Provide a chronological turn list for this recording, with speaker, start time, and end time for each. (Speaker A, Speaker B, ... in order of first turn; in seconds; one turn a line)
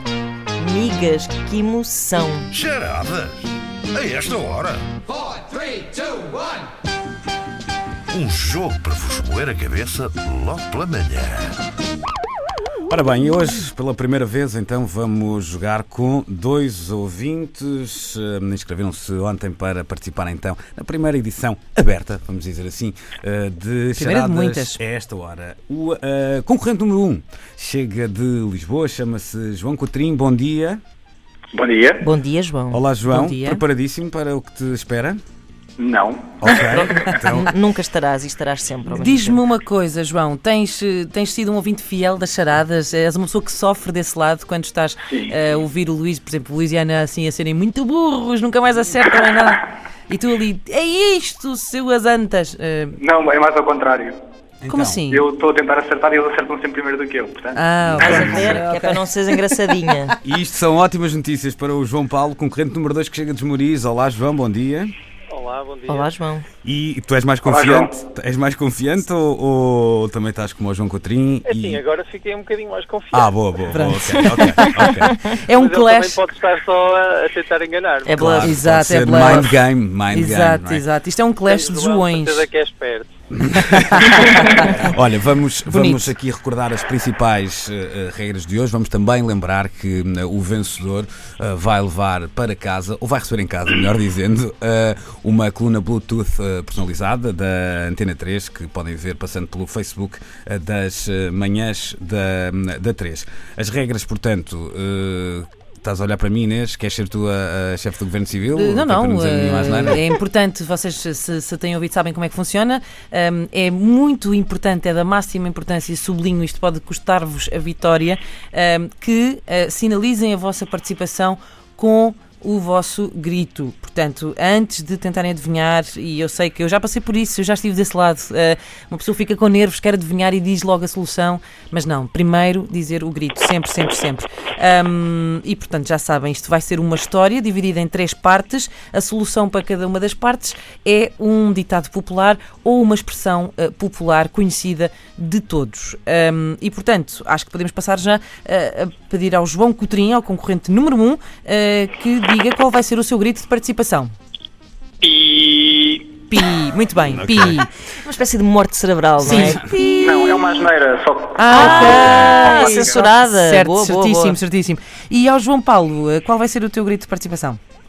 Speaker A: 0.6-2.5
Speaker B: 2.5-4.9
Speaker B: 8.1-11.6
Speaker C: 12.9-30.8
Speaker D: 24.0-24.8
Speaker E: 31.5-32.1
Speaker A: 32.0-32.8
Speaker C: 32.7-35.2
Speaker D: 33.1-33.6
Speaker E: 35.8-36.9
Speaker C: 36.4-37.5
Speaker A: 36.5-39.4
Speaker D: 38.9-53.0
Speaker E: 45.1-45.4
Speaker E: 53.0-54.2
Speaker C: 54.6-55.0
Speaker D: 54.7-55.2
Speaker E: 55.1-57.6
Speaker D: 57.6-59.0
Speaker C: 57.8-58.6
Speaker A: 58.0-60.2
Speaker C: 60.2-64.9
Speaker F: 65.3-66.1
Speaker A: 65.9-66.5
Speaker C: 66.6-71.8
Speaker E: 67.5-67.9
Speaker F: 71.5-73.4
Speaker C: 73.1-75.2
Speaker D: 73.7-76.3
Speaker A: 74.7-75.2
Speaker F: 75.6-78.2
Speaker A: 78.0-78.6
Speaker C: 78.2-80.8
Speaker D: 78.4-82.5
Speaker F: 81.5-83.1
Speaker C: 83.3-110.0
Speaker D: 83.7-84.8
Speaker A: 84.3-84.6
Speaker D: 85.7-86.1
Speaker D: 108.5-154.1
Speaker E: 155.0-156.4
Speaker D: 156.3-157.7
Speaker C: 157.1-157.6
Speaker A: 158.0-159.6
Speaker D: 159.2-160.5
Speaker E: 159.9-162.1
Speaker D: 161.4-167.6
Speaker A: 161.5-164.4
Speaker C: 162.0-162.4